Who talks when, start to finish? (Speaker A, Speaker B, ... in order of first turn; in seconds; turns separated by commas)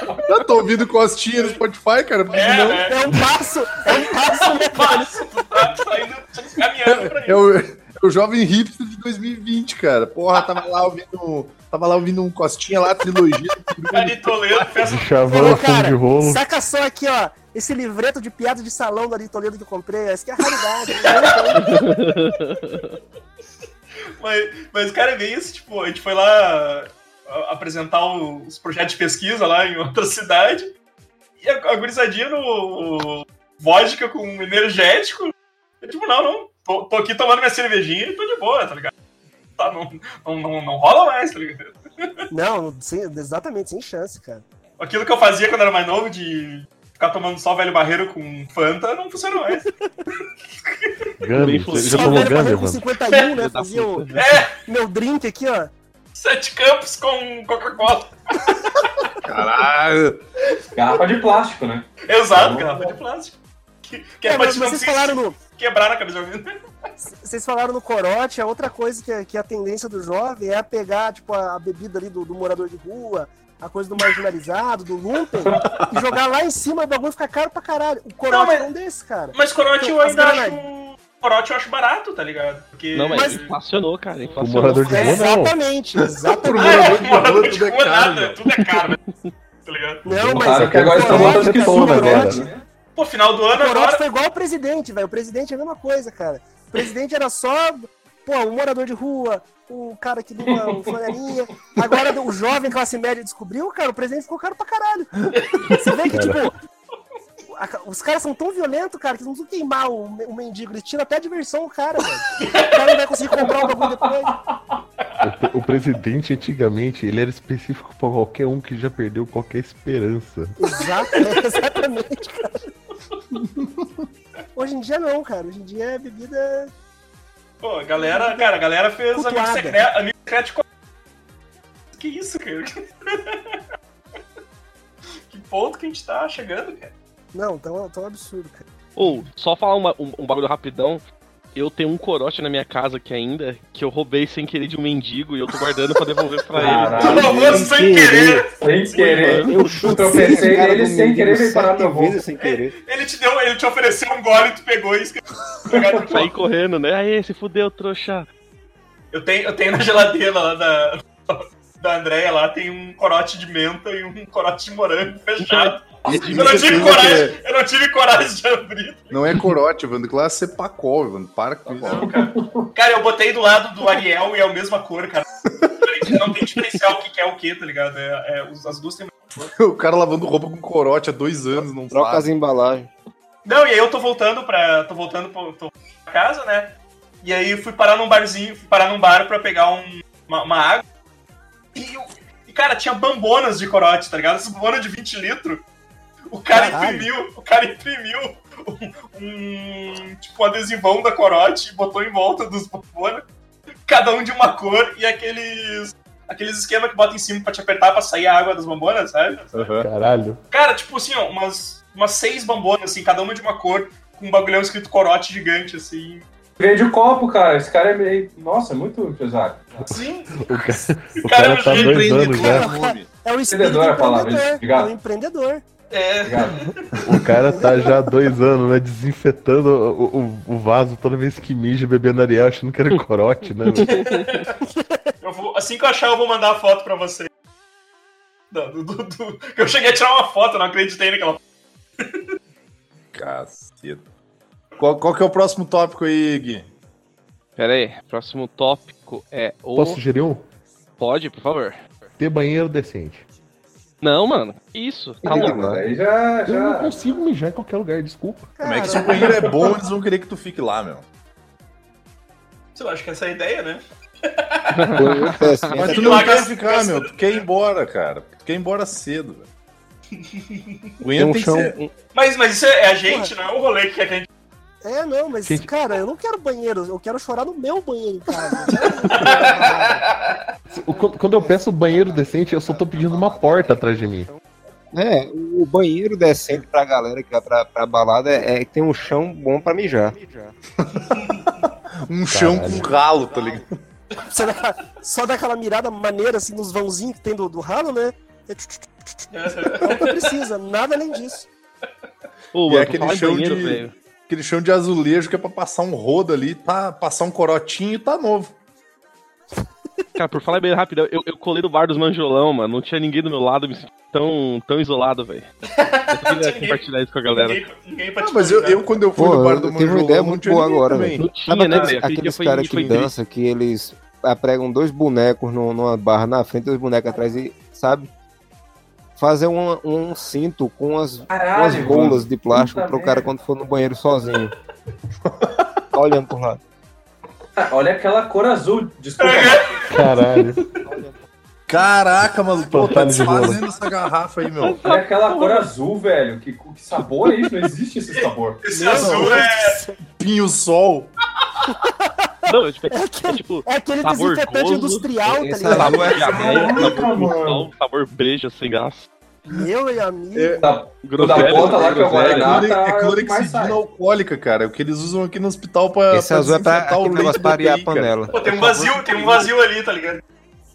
Speaker A: 0.3-2.9, Speaker B: 2.3-3.2, Speaker C: 2.8-5.1, Speaker B: 3.9-7.4, Speaker A: 6.9-14.8, Speaker B: 13.9-15.1, Speaker D: 14.8-16.4, Speaker C: 15.3-21.8, Speaker B: 20.9-21.8, Speaker E: 21.6-22.9, Speaker B: 22.4-22.8, Speaker B: 24.2-30.7, Speaker B: 31.4-38.9, Speaker B: 39.6-41.8, Speaker C: 42.3-44.4, Speaker B: 44.8-49.7, Speaker B: 50.7-50.9, Speaker D: 51.2-52.9, Speaker E: 51.3-52.3, Speaker C: 51.7-55.7, Speaker E: 53.1-54.2, Speaker B: 54.1-54.5, Speaker B: 56.1-59.2, Speaker A: 59.2-60.2, Speaker F: 60.7-62.9, Speaker B: 62.0-66.5, Speaker C: 64.2-65.4, Speaker C: 67.0-80.6, Speaker A: 75.6-75.9, Speaker B: 78.3-78.7, Speaker B: 79.3-83.5, Speaker E: 82.9-85.2, Speaker C: 83.1-83.4, Speaker D: 84.4-85.6, Speaker C: 84.6-87.0, Speaker A: 86.2-88.4, Speaker B: 86.6-89.0, Speaker B: 89.7-90.1, Speaker D: 90.1-92.5, Speaker C: 90.1-92.5, Speaker F: 90.3-92.6, Speaker B: 93.0-94.0, Speaker C: 93.5-105.1, Speaker C: 105.7-106.5, Speaker D: 106.1-106.5, Speaker C: 107.5-114.4, Speaker B: 112.4-112.9, Speaker D: 115.2-120.6, Speaker C: 120.6-122.6, Speaker B: 121.1-121.6, Speaker A: 123.6-123.9, Speaker C: 124.6-126.7, Speaker B: 127.6-130.6, Speaker C: 128.0-128.5, Speaker C: 129.1-129.8, Speaker B: 131.9-133.6, Speaker B: 135.3-136.9, Speaker C: 137.3-138.7, Speaker E: 139.0-141.0, Speaker E: 141.6-147.2, Speaker F: 146.5-147.7, Speaker B: 147.0-149.4, Speaker G: 147.0-148.5, Speaker F: 148.6-152.2, Speaker E: 149.2-150.5, Speaker G: 149.3-152.7, Speaker B: 152.3-156.3, Speaker F: 155.7-156.1, Speaker E: 156.1-158.3, Speaker B: 159.1-169.2, Speaker E: 165.4-165.7, Speaker F: 166.0-167.2, Speaker A: 166.1-167.4, Speaker A: 169.1-172.1, Speaker F: 171.7-172.7, Speaker B: 172.8-175.3, Speaker B: 175.8-179.1, Speaker A: 179.4-182.3, Speaker G: 181.5-182.9, Speaker B: 183.4-190.8, Speaker B: 191.8-195.6, Speaker B: 196.3-203.3, Speaker C: 196.5-197.1, Speaker B: 203.9-209.5, Speaker A: 209.5-209.9, Speaker D: 209.7-210.4, Speaker B: 210.5-216.3, Speaker F: 216.6-219.9, Speaker B: 219.8-220.3, Speaker D: 220.3-222.7, Speaker B: 221.2-222.6, Speaker A: 221.7-223.1, Speaker C: 222.4-225.6, Speaker F: 223.5-224.9, Speaker B: 225.9-226.9, Speaker F: 226.2-226.6, Speaker D: 227.0-234.1, Speaker E: 233.8-234.3, Speaker B: 233.9-234.5, Speaker C: 234.7-235.1, Speaker B: 235.2-237.3, Speaker B: 238.5-241.4, Speaker A: 243.1-244.1, Speaker A: 244.8-246.7, Speaker E: 247.6-250.0, Speaker D: 249.8-250.4, Speaker E: 251.0-251.8, Speaker D: 252.2-253.2, Speaker E: 254.0-255.7, Speaker F: 255.2-257.0, Speaker G: 255.2-255.9, Speaker D: 256.5-258.6, Speaker C: 258.6-259.4, Speaker A: 258.6-261.1, Speaker B: 262.8-265.0, Speaker E: 264.7-265.8, Speaker G: 265.0-266.3, Speaker A: 265.7-269.5, Speaker B: 265.8-267.4, Speaker B: 270.2-270.9, Speaker A: 271.0-271.8, Speaker G: 271.2-271.9, Speaker B: 272.1-274.3, Speaker C: 273.1-273.3, Speaker C: 274.8-280.0, Speaker D: 275.4-275.7, Speaker B: 279.1-280.4, Speaker D: 280.7-284.3, Speaker G: 281.2-284.4, Speaker G: 284.9-290.6, Speaker A: 290.8-293.8, Speaker B: 291.1-291.6, Speaker D: 292.3-293.0, Speaker G: 293.3-293.6, Speaker C: 294.2-301.5, Speaker B: 299.3-300.3, Speaker E: 302.5-303.9, Speaker A: 302.7-308.5, Speaker E: 310.2-315.5, Speaker B: 315.7-318.9, Speaker E: 316.1-317.6, Speaker A: 318.2-321.3, Speaker G: 319.1-328.1, Speaker E: 321.2-323.1, Speaker G: 329.2-334.5, Speaker F: 331.3-333.3, Speaker A: 335.3-335.6, Speaker G: 335.9-336.6, Speaker F: 337.6-339.8, Speaker B: 339.2-340.0, Speaker D: 339.9-340.6, Speaker G: 340.8-341.2, Speaker A: 341.7-344.8, Speaker D: 342.6-343.6, Speaker F: 344.8-348.6, Speaker E: 344.8-345.7, Speaker B: 348.1-349.8, Speaker C: 348.7-350.0, Speaker A: 350.2-351.1, Speaker C: 351.6-356.2, Speaker E: 352.5-355.1, Speaker G: 355.2-357.1, Speaker E: 355.7-359.1, Speaker F: 356.1-357.7, Speaker C: 359.5-360.7, Speaker A: 360.4-360.7, Speaker F: 360.6-363.8, Speaker E: 361.0-362.6, Speaker A: 361.3-368.3, Speaker G: 366.1-369.5, Speaker B: 368.3-370.2